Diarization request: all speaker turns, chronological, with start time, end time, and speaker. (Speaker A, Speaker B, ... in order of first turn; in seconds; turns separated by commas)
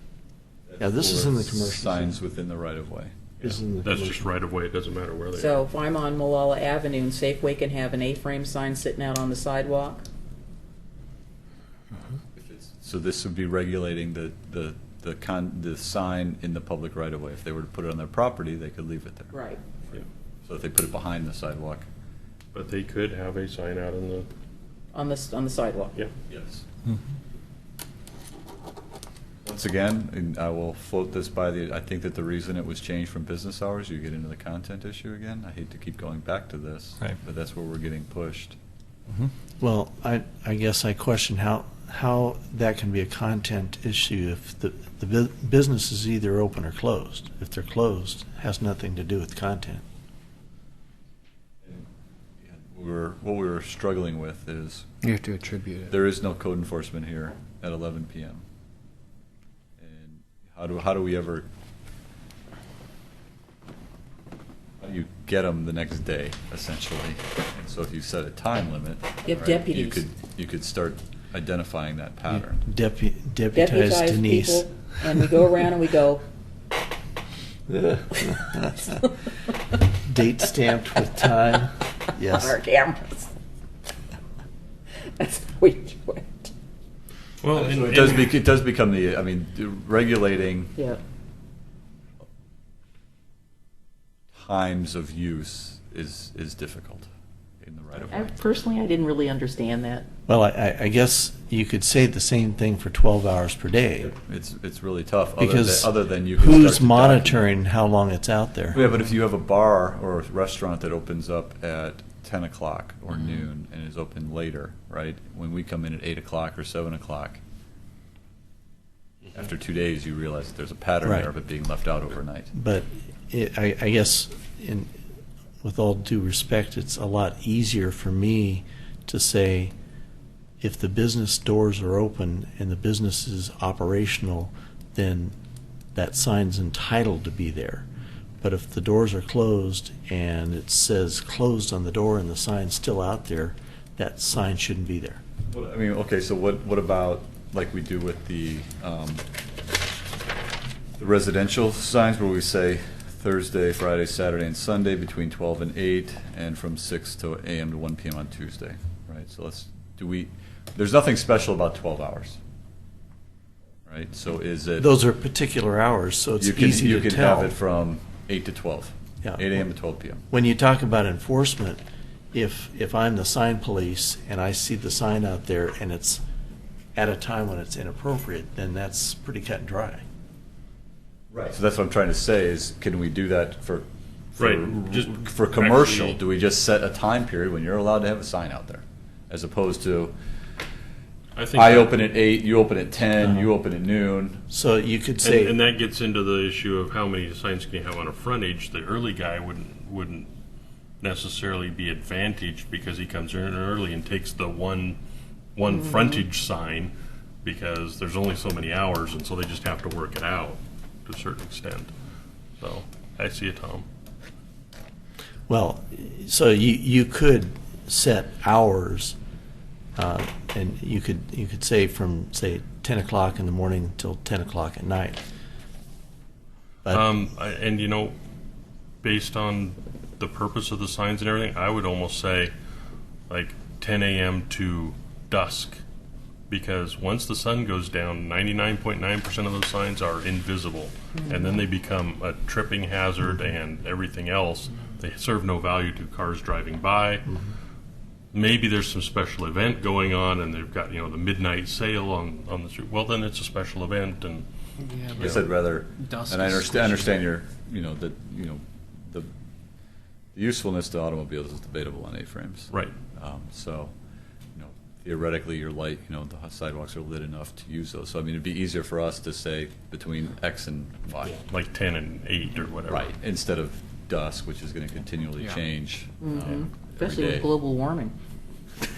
Speaker A: 0.7-3.3, Speaker B: 0.8-2.2, Speaker B: 3.4-4.2, Speaker C: 3.4-5.6, Speaker D: 5.3-10.0, Speaker A: 12.3-19.4, Speaker D: 19.3-19.6, Speaker A: 19.9-21.9, Speaker C: 22.5-24.3, Speaker D: 24.9-26.0, Speaker A: 26.3-26.6, Speaker A: 29.4-38.6, Speaker B: 39.6-49.8, Speaker A: 52.4-55.0, Speaker E: 55.0-55.9, Speaker A: 55.9-58.4, Speaker A: 59.8-61.5, Speaker A: 64.8-72.6, Speaker D: 69.2-70.0, Speaker B: 72.3-75.6, Speaker D: 73.5-76.2, Speaker B: 77.7-79.1, Speaker B: 80.0-82.6, Speaker D: 82.2-83.3, Speaker D: 85.0-86.5, Speaker C: 87.4-88.3, Speaker A: 87.5-90.8, Speaker A: 94.3-97.1, Speaker A: 97.6-98.4, Speaker D: 98.1-100.1, Speaker B: 100.3-104.1, Speaker A: 104.0-107.5, Speaker B: 105.4-108.8, Speaker A: 108.7-117.4, Speaker A: 119.3-122.5, Speaker B: 121.0-121.3, Speaker B: 122.5-125.0, Speaker B: 125.6-129.7, Speaker B: 130.6-135.3, Speaker B: 135.9-137.9, Speaker B: 138.4-145.2, Speaker A: 145.5-149.2, Speaker A: 151.0-162.4, Speaker A: 163.9-164.9, Speaker B: 164.8-167.5, Speaker A: 166.4-170.2, Speaker B: 169.2-169.6, Speaker B: 170.3-171.8, Speaker B: 172.3-176.2, Speaker B: 176.9-180.0, Speaker A: 181.3-190.2, Speaker C: 184.4-186.2, Speaker C: 191.3-191.9, Speaker A: 191.6-194.4, Speaker B: 194.5-195.6, Speaker C: 195.2-200.3, Speaker C: 201.0-205.0, Speaker C: 205.6-206.9, Speaker C: 207.4-211.9, Speaker C: 212.6-213.9, Speaker B: 215.5-219.2, Speaker B: 220.0-225.2, Speaker B: 226.9-227.1, Speaker C: 226.9-228.2, Speaker C: 229.0-232.5, Speaker C: 233.3-235.8, Speaker C: 236.5-247.3, Speaker D: 241.2-241.5, Speaker C: 248.3-254.5, Speaker E: 254.8-255.5, Speaker C: 255.1-255.4, Speaker A: 255.2-259.3, Speaker E: 256.0-257.2, Speaker A: 260.4-263.9, Speaker A: 264.6-271.4, Speaker C: 271.5-273.1, Speaker A: 272.9-277.5, Speaker D: 276.2-278.1